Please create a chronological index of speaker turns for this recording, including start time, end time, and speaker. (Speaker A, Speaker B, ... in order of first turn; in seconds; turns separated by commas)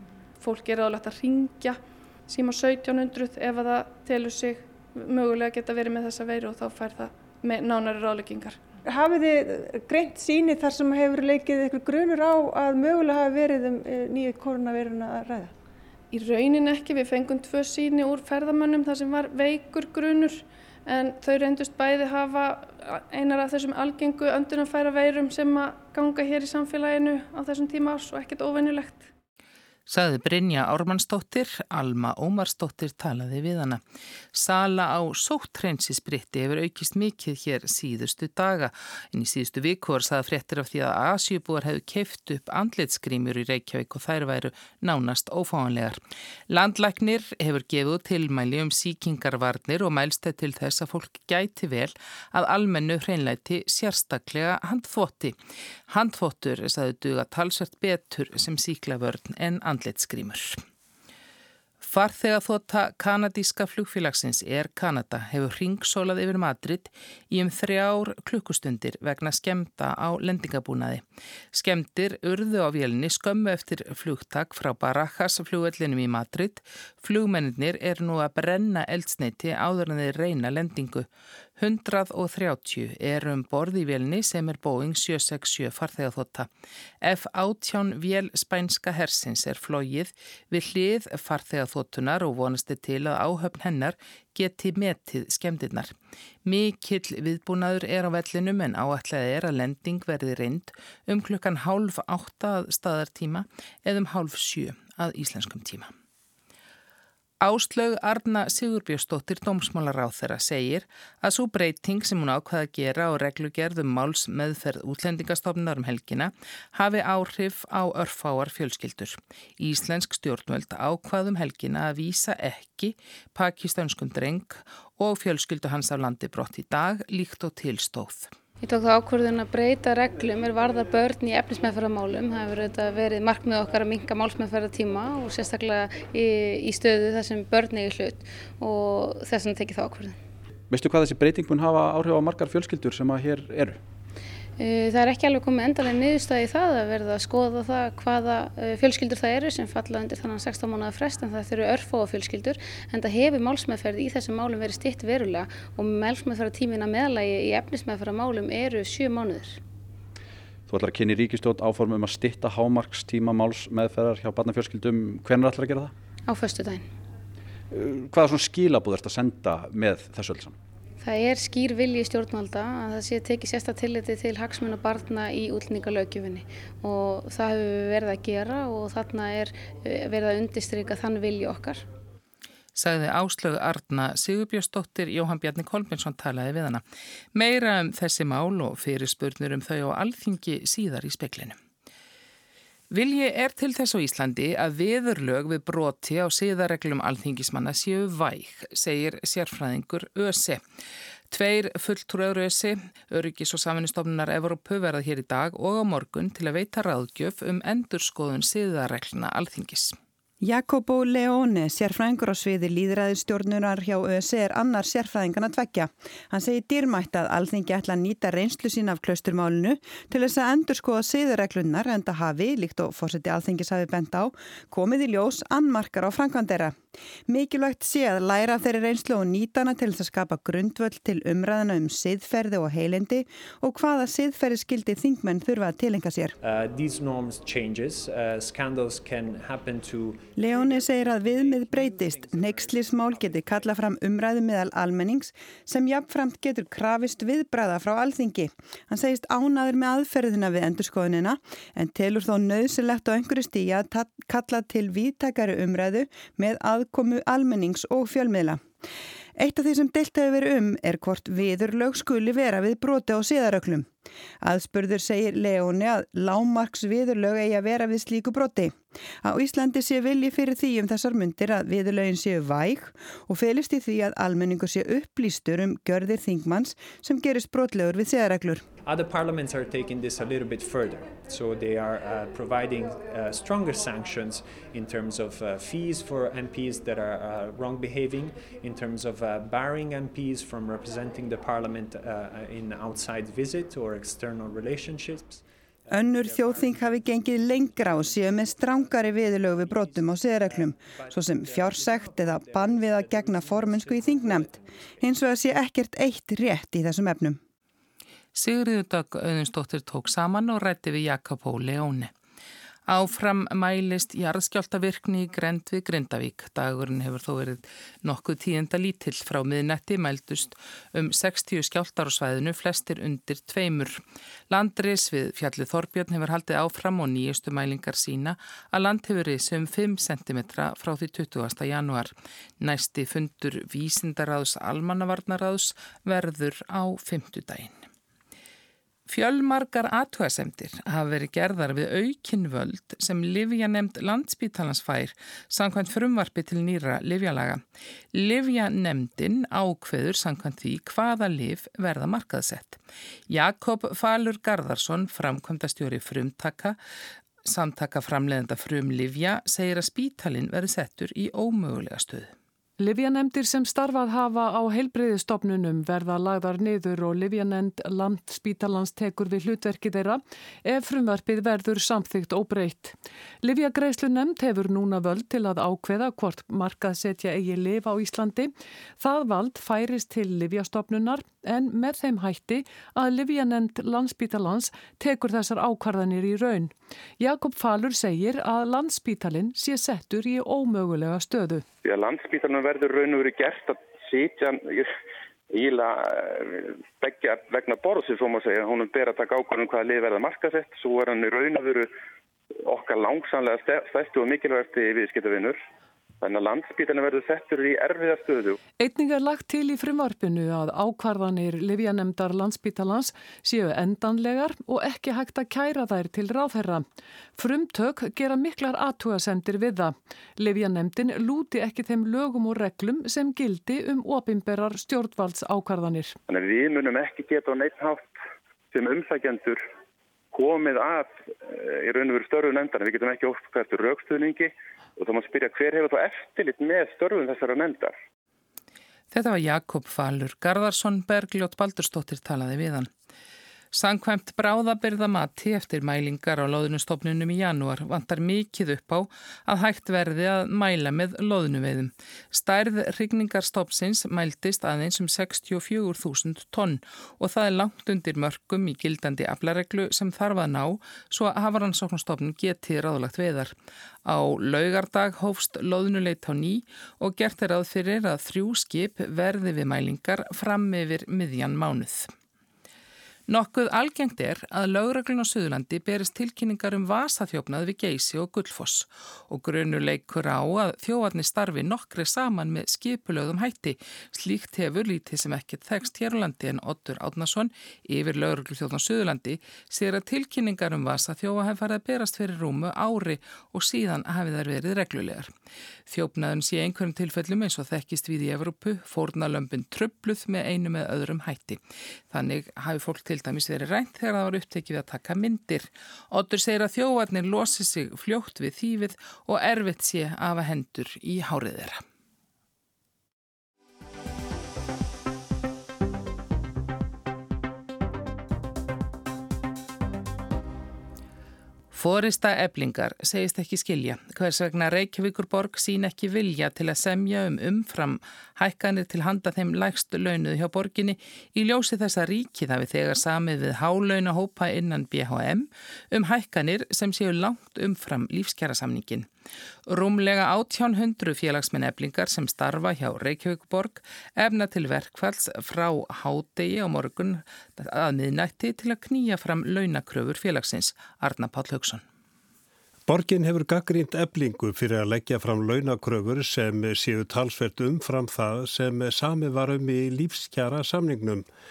Speaker A: 0.4-8.6, Speaker B: 8.8-15.5, Speaker A: 16.1-29.1, Speaker C: 29.9-33.8, Speaker C: 34.3-55.4, Speaker C: 55.9-60.6, Speaker C: 61.8-81.1, Speaker C: 81.6-86.5, Speaker C: 87.0-95.9, Speaker C: 96.4-105.9, Speaker C: 107.4-128.3, Speaker D: 128.6-140.2, Speaker E: 140.7-143.8, Speaker D: 144.6-159.6, Speaker E: 160.7-165.9, Speaker D: 166.3-166.9, Speaker E: 167.7-170.5, Speaker D: 171.0-181.8, Speaker C: 182.8-186.8, Speaker C: 187.3-191.6, Speaker C: 192.9-200.6, Speaker C: 201.3-210.0, Speaker F: 210.4-236.3, Speaker G: 236.4-244.0, Speaker F: 240.3-258.6, Speaker F: 259.4-263.9, Speaker F: 264.4-278.6, Speaker G: 278.8-305.1, Speaker F: 295.9-307.4, Speaker C: 308.3-312.1, Speaker C: 312.9-337.8, Speaker C: 339.1-347.6, Speaker C: 348.1-356.8, Speaker C: 357.4-362.3, Speaker H: 362.8-391.6, Speaker I: 391.8-394.9, Speaker I: 395.5-401.9, Speaker I: 402.6-405.6, Speaker I: 406.2-408.6, Speaker H: 408.8-416.8, Speaker H: 417.4-426.2, Speaker I: 426.3-428.1, Speaker I: 428.7-429.6, Speaker I: 430.3-437.9, Speaker C: 439.1-442.9, Speaker C: 443.7-463.5, Speaker C: 464.0-472.1, Speaker C: 473.3-495.3, Speaker C: 495.9-501.6, Speaker C: 502.1-511.8, Speaker C: 521.7-539.1, Speaker C: 539.7-551.8, Speaker J: 552.9-561.2